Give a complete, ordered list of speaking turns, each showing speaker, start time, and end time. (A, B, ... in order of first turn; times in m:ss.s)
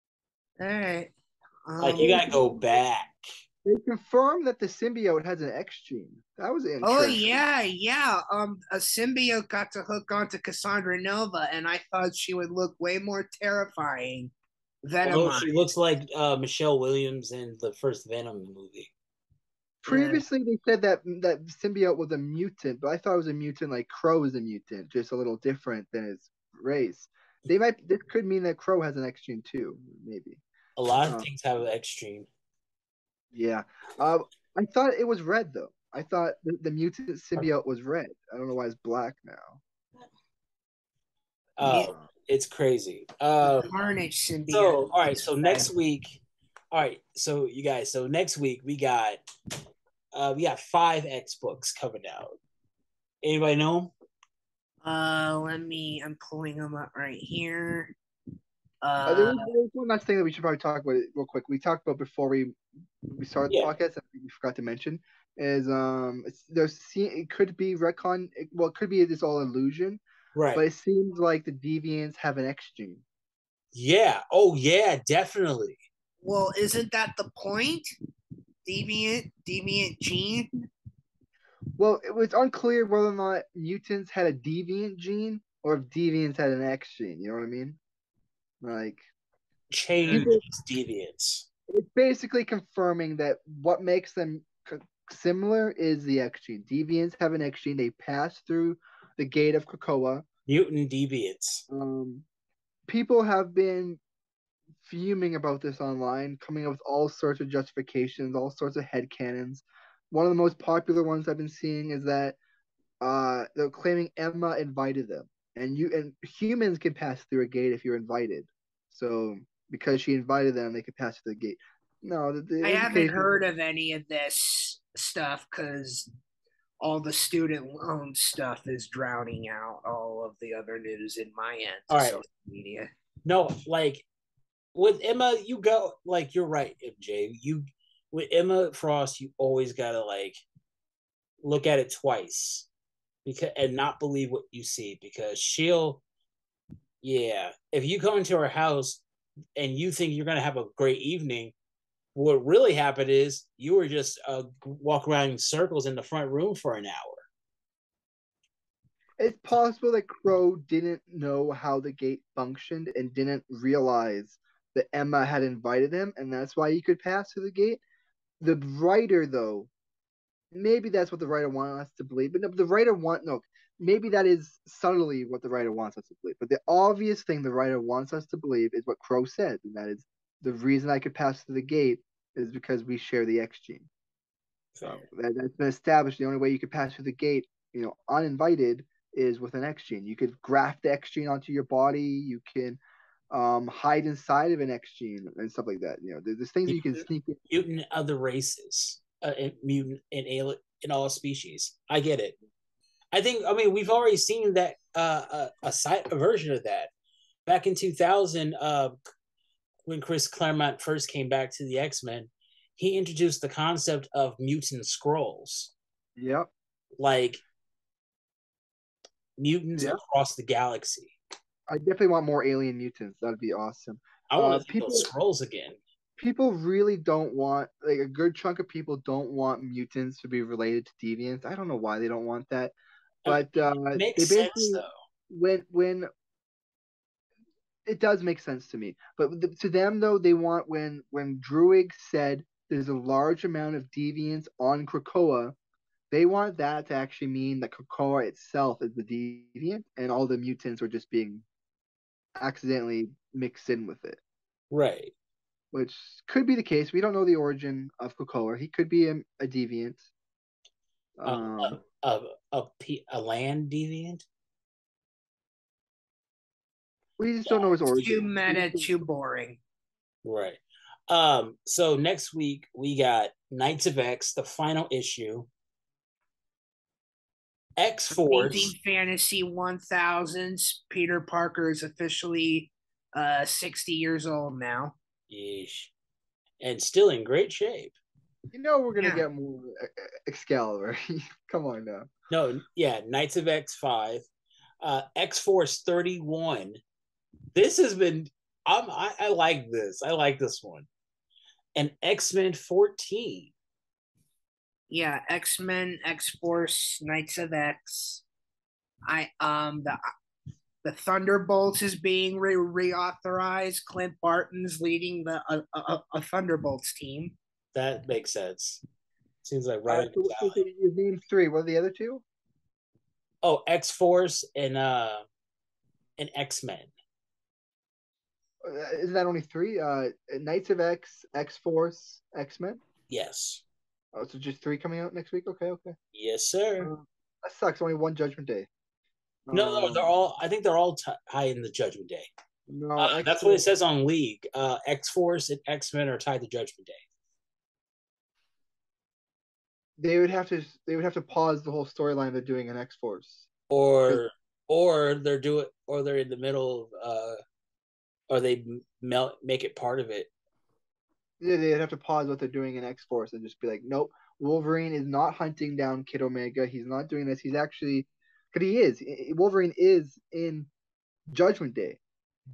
0:00.6-0:01.1 A
0:01.7-0:02.4 A
0:01.8-0:03.2 B
0:02.0-0:02.5 C
0:03.6-0:07.4 C
0:06.8-0:14.3 A
0:14.8-0:15.7 A
0:15.0-0:18.9 B
0:19.8-0:30.4 C
0:19.9-0:20.2 A
0:30.8-0:32.3 B
0:33.3-0:39.6 C
0:41.6-0:43.7 B
0:41.6-0:41.9 A
0:43.5-0:45.7 A
0:44.5-0:46.2 B
0:46.7-0:49.2 B
0:50.1-0:52.4 B
0:53.2-0:53.9 B
0:54.8-0:58.0 A
0:58.8-0:59.5 A
0:59.1-1:10.0 C
1:10.4-1:10.6 B
1:10.6-1:13.0 C
1:13.7-1:15.8 B
1:16.2-1:17.9 A
1:18.7-1:20.7 A
1:21.8-1:27.8 C
1:28.6-1:29.0 C
1:29.7-1:31.5 B
1:30.1-1:30.4 C
1:31.7-1:40.2 C
1:40.5-1:41.6 B
1:41.7-1:42.3 C
1:42.9-1:44.0 C
1:44.8-1:52.4 C
1:53.0-2:03.4 C
2:02.6-2:06.1 A
2:06.8-2:12.9 A
2:11.9-2:12.2 B
2:13.3-2:14.0 B
2:14.8-2:20.4 B
2:21.4-2:22.7 B
2:23.2-2:26.0 B
2:27.0-2:29.0 B
2:29.6-2:31.5 B
2:32.2-2:37.3 B
2:39.2-2:47.8 C
2:48.4-2:49.7 C
2:50.5-3:03.9 C
3:04.8-3:05.0 B
3:04.8-3:12.8 C
3:13.3-3:17.4 C
3:17.5-3:22.4 B
3:23.1-3:26.9 B
3:27.5-3:29.0 B
3:29.9-3:35.7 B
3:36.2-3:36.5 C
3:37.0-3:37.4 B
3:39.4-3:41.2 B
3:41.7-3:45.1 C
3:44.3-3:45.8 B
3:46.2-3:52.7 C
3:53.2-3:54.9 B
3:53.3-3:56.1 C
3:57.9-4:05.6 C
4:06.1-4:11.4 C
4:12.4-4:14.2 C
4:14.7-4:15.1 B
4:15.7-4:20.1 C
4:21.2-4:21.8 C
4:21.2-4:24.2 B
4:27.2-4:28.9 C
4:27.5-4:29.6 A
4:30.2-4:35.5 B
4:37.8-4:38.7 B
4:38.1-4:45.0 A
4:45.3-4:45.9 B
4:46.6-4:48.0 B
4:48.5-4:52.1 C
4:49.0-4:49.2 A
4:52.3-4:54.2 B
4:54.8-4:56.8 B
4:57.5-5:00.9 B
5:01.8-5:03.5 B
5:04.9-5:08.2 A
5:09.1-5:10.0 A
5:10.8-5:17.4 A
5:17.7-5:18.8 B
5:19.4-5:20.6 B
5:19.9-5:22.2 C
5:23.4-5:25.3 B
5:26.2-5:26.9 B
5:28.6-5:32.8 C
5:33.1-5:33.6 B
5:34.1-5:36.0 C
5:36.1-5:36.9 B
5:36.8-5:38.7 C
5:39.5-5:40.1 C
5:39.5-5:42.3 B
5:42.7-5:43.6 C
5:43.0-5:47.0 B
5:50.0-5:53.5 C
5:53.7-5:57.4 B
5:58.3-6:00.3 B
6:01.4-6:10.7 C
6:11.3-6:12.0 C